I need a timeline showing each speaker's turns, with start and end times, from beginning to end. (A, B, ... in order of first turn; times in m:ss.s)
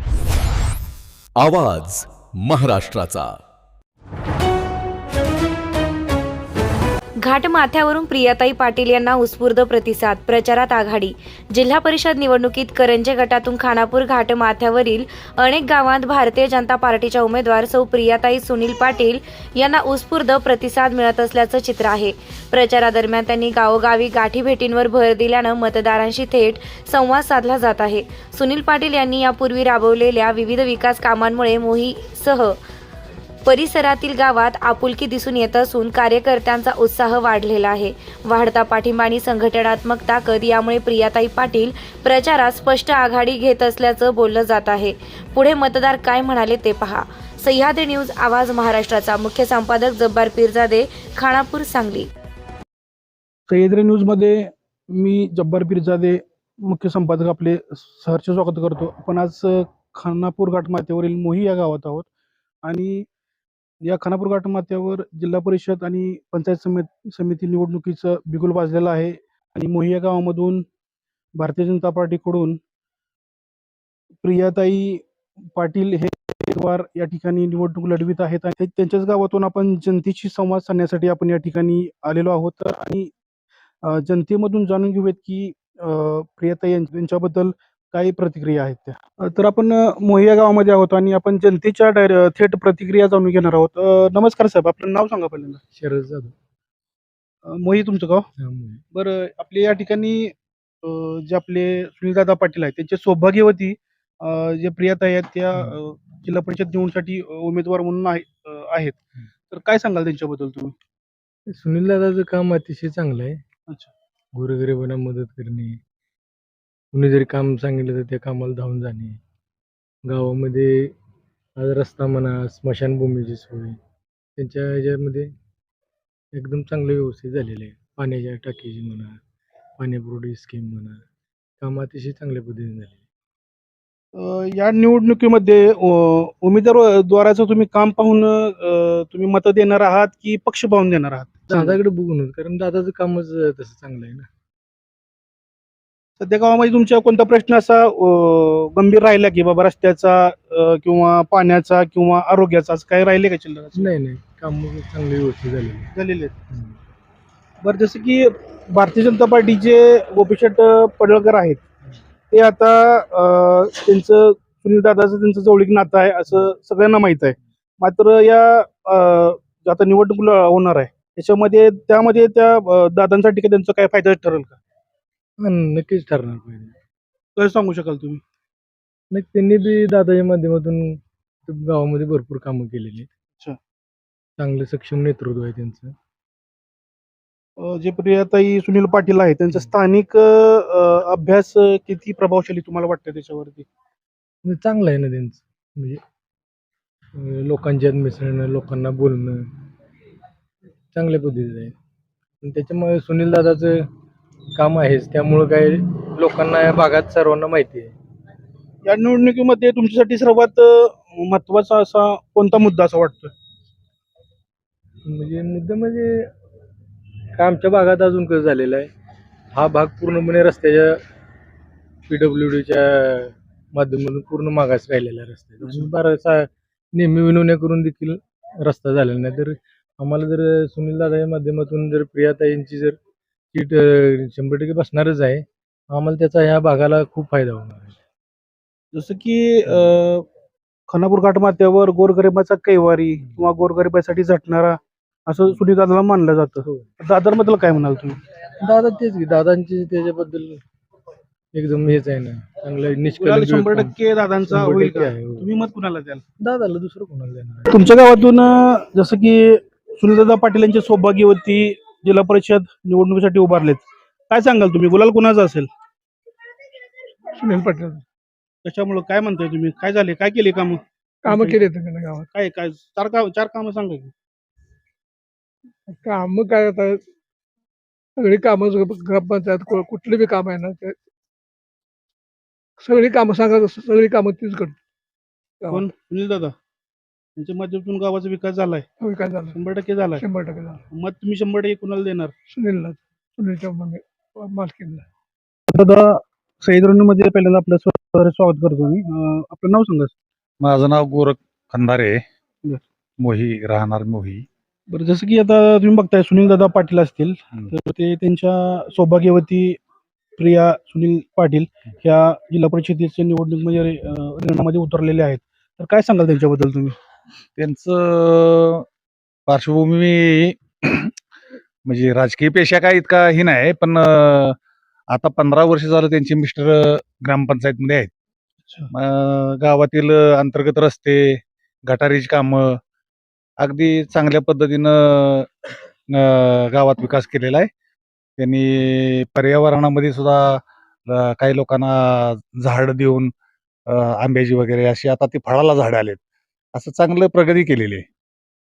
0:01.4-0:03.3 A
0:07.3-0:32.6 B
0:33.5-0:52.1 B
0:53.5-1:02.1 C
1:02.6-1:03.0 C
1:03.8-1:10.6 C
1:11.4-1:12.6 C
1:14.2-1:15.0 C
1:15.6-1:23.1 C
1:23.8-1:35.6 C
1:35.8-1:36.3 D
1:37.4-1:38.2 C
1:38.4-1:38.8 D
1:38.9-1:50.7 C
1:51.5-1:53.4 D
1:54.4-1:55.8 D
1:56.9-1:59.2 D
2:00.1-2:00.9 D
2:01.6-2:03.8 D
2:04.4-2:05.3 D
2:06.4-2:09.2 D
2:09.8-2:11.0 D
2:11.6-2:13.0 D
2:14.2-2:21.8 C
2:21.5-2:24.3 D
2:26.2-2:34.0 C
2:33.8-2:35.9 D
2:35.9-2:36.4 C
2:37.6-2:41.6 C
2:42.3-2:54.6 C
2:55.4-2:56.7 D
2:57.4-2:58.2 C
2:59.1-3:03.1 D
3:04.4-3:05.9 D
3:07.6-3:13.7 C
3:14.4-3:16.0 D
3:17.2-3:19.5 D
3:20.9-3:21.7 D
3:22.4-3:23.8 D
3:24.6-3:27.9 D
3:28.8-3:33.3 C
3:35.1-3:36.2 D
3:37.4-3:38.9 D
3:39.5-3:41.0 D
3:42.1-3:53.0 D
3:53.5-3:58.0 D
3:58.9-4:00.2 C
4:00.9-4:08.2 C
4:08.6-4:10.6 D
4:11.5-4:15.5 D
4:13.2-4:16.2 C
4:16.4-4:17.8 D
4:17.7-4:25.7 C
4:27.4-4:28.0 E
4:28.6-4:31.7 C
4:31.2-4:32.3 E
4:32.3-4:34.1 C
4:35.9-4:37.0 E
4:38.2-4:41.0 E
4:42.8-4:44.8 E
4:45.7-4:46.5 C
4:47.4-4:48.9 C
4:49.0-4:49.6 E
4:49.5-4:50.2 C
4:50.2-4:50.8 E
4:50.9-4:52.3 C
4:52.5-4:55.0 E
4:55.7-5:00.1 C
5:00.6-5:02.2 F
5:03.2-5:04.4 F
5:04.9-5:09.8 C
5:10.4-5:17.0 C
5:17.6-5:18.8 F
5:19.5-5:21.1 F
5:21.9-5:24.6 F
5:25.1-5:28.1 F
5:28.6-5:28.9 C
5:28.9-5:32.8 F
5:33.6-5:35.5 F
5:36.1-5:37.7 F
5:38.4-5:43.3 F
5:43.9-5:46.2 F
5:46.8-5:48.0 F